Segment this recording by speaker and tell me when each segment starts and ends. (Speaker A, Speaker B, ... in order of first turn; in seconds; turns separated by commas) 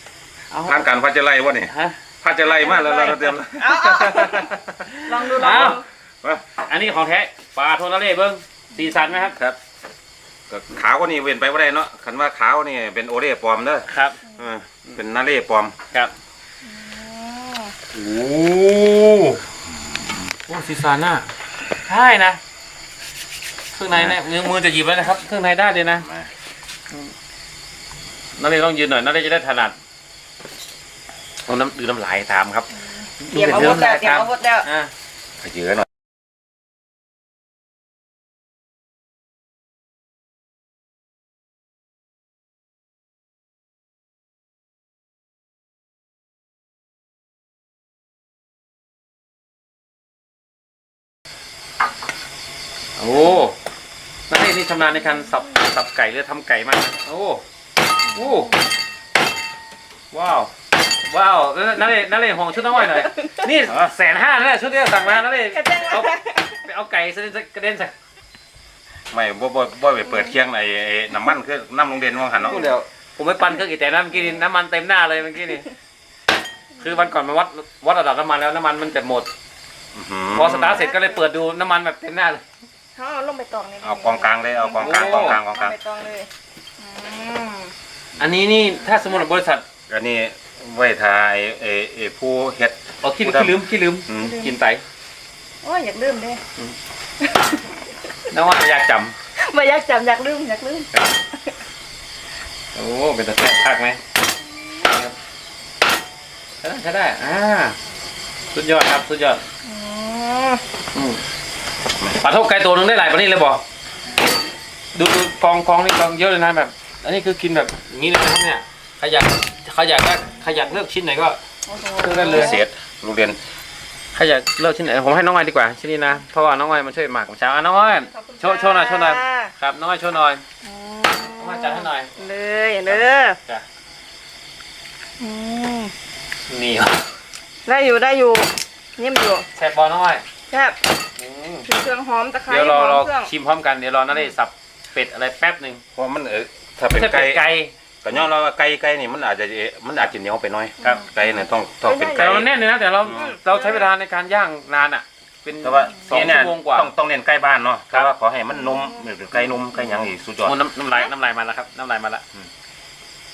Speaker A: 0.5-0.8, Speaker B: 0.7-1.7, Speaker A: 1.7-2.0, Speaker B: 2.2-6.4, Speaker C: 2.5-4.5, Speaker C: 5.0-5.8, Speaker A: 5.3-5.8, Speaker A: 6.7-9.4, Speaker B: 10.5-15.8, Speaker A: 13.9-14.2, Speaker C: 16.6-17.7, Speaker A: 17.9-19.4, Speaker A: 20.5-21.3, Speaker A: 21.9-22.4, Speaker A: 23.8-26.1, Speaker B: 26.0-26.3, Speaker A: 28.4-29.7, Speaker A: 31.5-32.7, Speaker A: 33.2-34.9, Speaker C: 33.3-34.7, Speaker B: 35.4-35.9, Speaker A: 53.0-53.5, Speaker A: 54.3-57.4, Speaker A: 58.1-58.5, Speaker A: 60.1-60.5, Speaker A: 61.1-67.9, Speaker C: 62.8-63.4, Speaker C: 65.5-66.4, Speaker B: 69.1-72.7, Speaker A: 72.4-75.7, Speaker A: 76.8-79.3, Speaker B: 79.9-80.8, Speaker A: 80.3-82.4, Speaker C: 80.7-81.2, Speaker C: 83.0-87.7, Speaker B: 83.8-85.7, Speaker A: 84.8-85.4, Speaker A: 88.2-89.7, Speaker B: 89.9-93.6, Speaker A: 93.0-94.8, Speaker B: 94.1-94.4, Speaker C: 94.2-94.5, Speaker C: 95.6-96.4, Speaker C: 97.2-97.6, Speaker A: 98.3-99.1, Speaker C: 99.4-100.9, Speaker A: 102.8-104.0, Speaker A: 106.6-107.8, Speaker A: 108.5-109.4, Speaker C: 109.7-110.6, Speaker A: 112.1-113.6, Speaker A: 115.0-121.4, Speaker C: 121.7-122.6, Speaker A: 122.0-122.6, Speaker B: 122.3-123.4, Speaker A: 124.1-130.4, Speaker C: 127.9-129.5, Speaker C: 130.6-133.4, Speaker A: 131.4-132.1, Speaker A: 132.9-133.6, Speaker C: 135.2-135.9, Speaker A: 136.5-137.0, Speaker C: 137.7-139.4, Speaker A: 139.6-140.2, Speaker C: 140.5-140.8, Speaker A: 141.2-141.7, Speaker C: 141.7-143.3, Speaker A: 142.5-145.8, Speaker B: 145.9-147.4, Speaker A: 146.9-147.7, Speaker B: 148.0-152.5, Speaker C: 150.8-151.1, Speaker C: 151.8-152.4, Speaker A: 152.2-156.9, Speaker C: 153.1-153.9, Speaker B: 155.6-160.6, Speaker C: 158.7-159.0, Speaker A: 160.4-162.2